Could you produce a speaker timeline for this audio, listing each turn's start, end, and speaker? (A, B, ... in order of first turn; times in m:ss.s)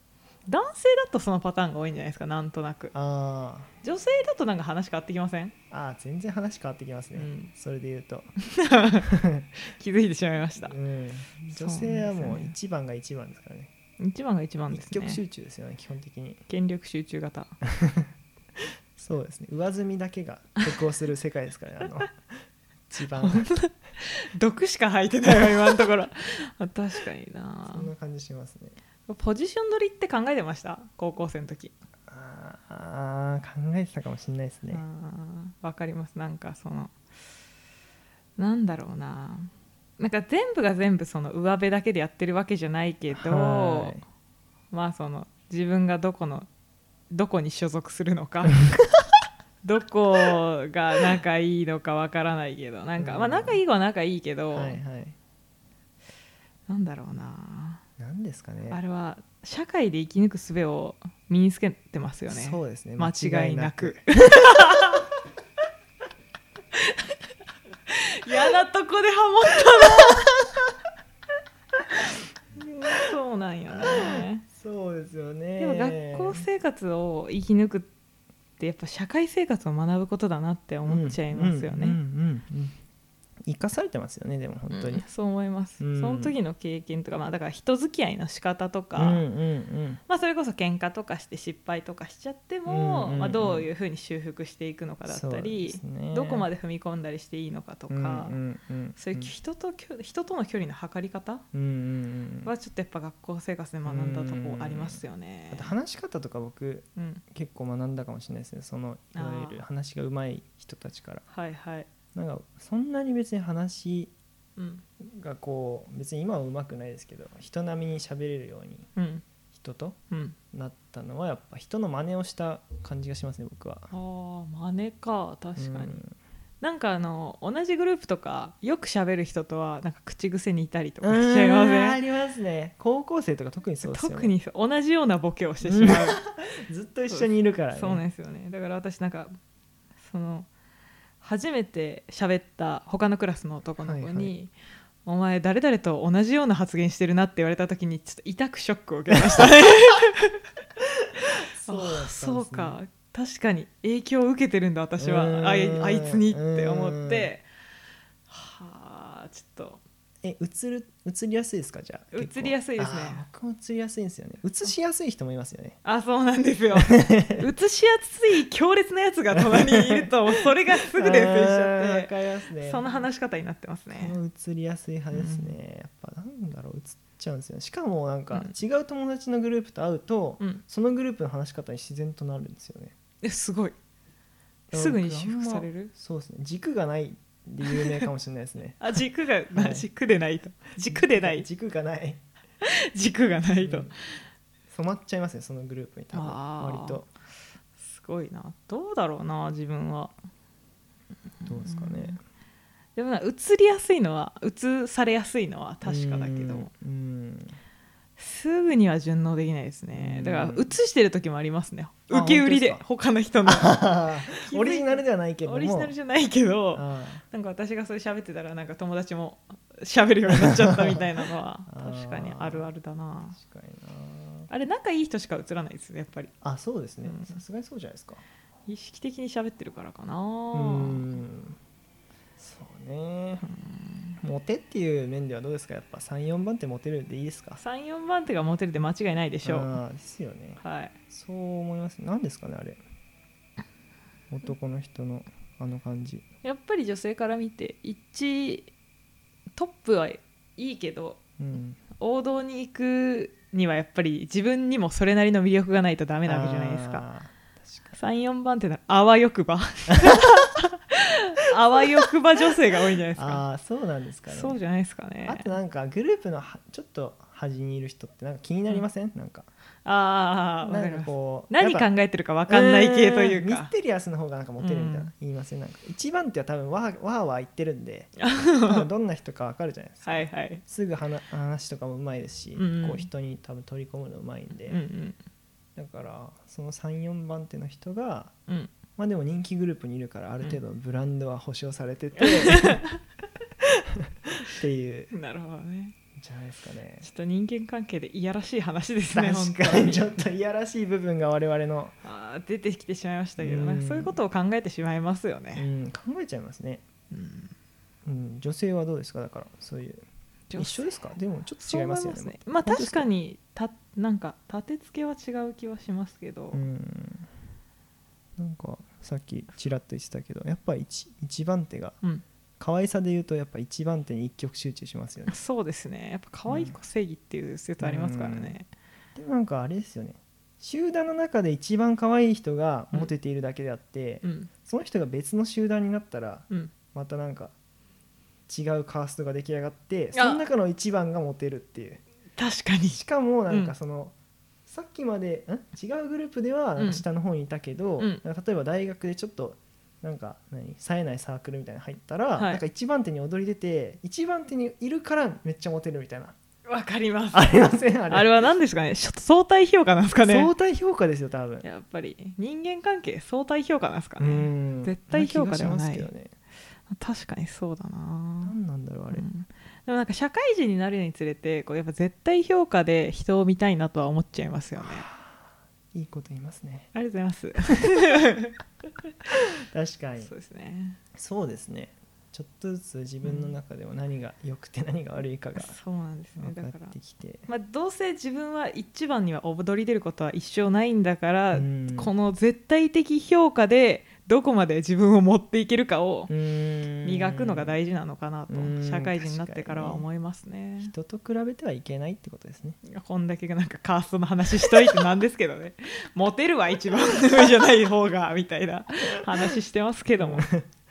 0:00.5-0:02.9 A
0:02.9-0:03.8 B
0:03.8-0:05.5 A
0:05.7-0:08.3 B
0:07.2-0:07.5 A
0:08.4-0:09.1 A
0:09.1-0:09.5 B
0:09.7-0:10.8 A
0:10.6-0:13.7 B
0:11.5-0:12.6 A
0:14.0-0:15.2 A
0:14.7-0:16.4 B
0:16.5-0:17.6 A
0:17.6-0:18.1 B
0:19.0-0:23.5 B
0:23.2-0:27.9 A
0:27.7-0:28.8 B
0:29.1-0:31.7 A
0:32.1-0:34.8 B
0:34.7-0:37.0 A
0:38.4-0:44.0 A
0:43.1-0:44.0 B
0:44.7-0:46.5 A
0:47.1-0:48.7 A
0:49.6-0:54.8 A
0:53.0-0:53.6 B
0:54.5-0:55.2 B
0:56.7-0:57.8 A
0:58.0-0:58.8 B
0:58.7-1:05.0 A
1:02.3-1:04.4 B
1:06.7-1:07.1 A
1:07.9-1:10.3 A
1:12.6-1:14.4 A
1:13.7-1:16.5 B
1:15.6-1:17.9 A
1:18.6-1:22.0 A
1:20.9-1:22.8 B
1:23.5-1:25.0 B
1:24.7-1:29.2 A
1:25.8-1:26.4 B
1:29.0-1:30.0 B
1:30.1-1:38.4 A
1:32.7-1:33.7 B
1:35.1-1:36.5 B
1:37.9-1:39.3 B
1:39.0-1:41.5 A
1:41.5-1:42.5 B
1:42.4-1:45.7 A
1:43.9-1:51.2 B
1:47.0-1:47.2 A
1:49.2-1:49.6 A
1:51.3-1:51.9 A
1:52.1-1:54.1 B
1:54.6-1:54.8 A
1:55.0-1:58.9 B
1:59.0-1:59.2 A
1:59.5-2:00.0 B
2:00.1-2:00.4 A
2:00.5-2:03.9 B
2:03.9-2:06.0 A
2:05.6-2:06.2 B
2:06.6-2:12.0 A
2:11.0-2:14.3 B
2:13.9-2:16.3 A
2:15.6-2:18.0 B
2:17.1-2:19.3 A
2:20.0-2:20.5 A
2:21.2-2:24.5 A
2:23.8-2:24.3 B
2:25.1-2:30.4 A
2:31.5-2:32.8 B
2:31.6-2:37.4 A
2:35.0-2:37.3 B
2:38.3-2:39.8 A
2:40.2-2:45.8 B
2:42.1-2:43.2 A
2:45.8-2:54.2 A
2:46.7-2:47.4 B
2:49.3-2:53.0 B
2:53.9-3:02.9 B
2:55.1-2:55.6 A
3:03.2-3:03.8 A
3:04.7-3:05.9 A
3:04.7-3:09.0 B
3:07.7-3:08.0 A
3:08.8-3:11.5 A
3:09.5-3:09.9 B
3:10.9-3:12.2 B
3:12.6-3:13.9 A
3:13.6-3:13.9 B
3:14.7-3:17.1 B
3:16.1-3:17.0 A
3:17.8-3:20.2 A
3:21.4-3:22.1 A
3:21.5-3:22.2 B
3:23.0-3:26.7 A
3:25.8-3:27.6 B
3:28.2-3:43.4 A
3:29.9-3:30.8 B
3:32.1-3:32.8 B
3:33.4-3:36.0 B
3:36.7-3:37.2 B
3:40.3-3:40.7 B
3:41.7-3:42.7 B
3:43.3-3:44.5 B
3:44.5-3:46.3 A
3:46.4-3:48.2 B
3:47.0-3:47.4 A
3:48.7-3:51.1 A
3:50.5-3:51.6 B
3:52.4-3:53.4 B
3:53.4-3:54.2 A
3:54.2-3:57.6 B
3:57.6-3:59.8 A
3:59.4-4:02.8 B
4:00.6-4:00.9 A
4:04.3-4:06.2 B
4:06.4-4:08.7 A
4:09.6-4:11.2 A
4:11.4-4:11.8 B
4:12.0-4:17.0 A
4:16.2-4:17.9 B
4:17.9-4:23.4 A
4:19.9-4:20.2 B
4:23.2-4:24.6 B
4:24.3-4:25.5 A
4:25.2-4:29.5 B
4:29.8-4:33.7 A
4:30.6-4:31.9 B
4:32.5-4:44.8 B
4:34.6-4:35.1 A
4:38.2-4:38.8 A
4:40.0-4:40.6 A
4:42.6-4:43.1 A
4:44.7-4:45.2 A
4:45.8-4:48.3 B
4:48.5-4:48.8 A
4:49.0-4:52.8 B
4:52.2-4:53.0 A
4:54.3-4:55.1 B
4:55.1-4:56.0 A
4:56.2-4:57.1 B
4:57.0-5:00.1 A
4:59.1-5:02.0 B
5:02.0-5:05.7 A
5:03.4-5:04.2 B
5:05.6-5:06.8 B
5:07.1-5:07.5 A
5:08.1-5:10.0 B
5:10.5-5:11.0 A
5:10.6-5:13.1 B
5:11.6-5:16.6 A
5:16.5-5:17.3 B
5:18.4-5:22.0 B
5:22.6-5:25.4 B
5:25.3-5:28.7 A
5:26.5-5:26.8 B
5:27.8-5:28.6 B
5:29.2-5:37.5 B
5:34.2-5:34.5 A
5:38.5-5:42.0 B
5:40.1-5:40.4 A
5:42.4-5:43.8 A
5:42.9-5:44.1 B
5:44.7-5:56.4 B
5:46.8-5:47.0 A
5:48.0-5:48.2 A
5:52.4-5:52.6 A
5:56.7-6:00.5 A
5:57.3-5:58.5 B
6:00.2-6:01.7 B
6:01.6-6:06.1 A
6:04.2-6:06.3 B
6:06.9-6:08.6 A
6:08.4-6:09.3 B
6:09.1-6:15.1 A
6:14.8-6:16.9 B
6:16.9-6:18.6 A
6:19.7-6:20.3 B
6:20.2-6:21.0 A
6:21.2-6:25.8 B
6:23.2-6:23.6 A
6:25.6-6:36.3 A
6:26.4-6:27.5 B
6:31.5-6:32.1 B
6:36.3-6:37.8 B
6:37.0-6:40.9 A
6:38.5-6:40.1 B
6:40.8-6:42.8 B
6:42.8-6:50.4 A
6:50.2-6:50.7 B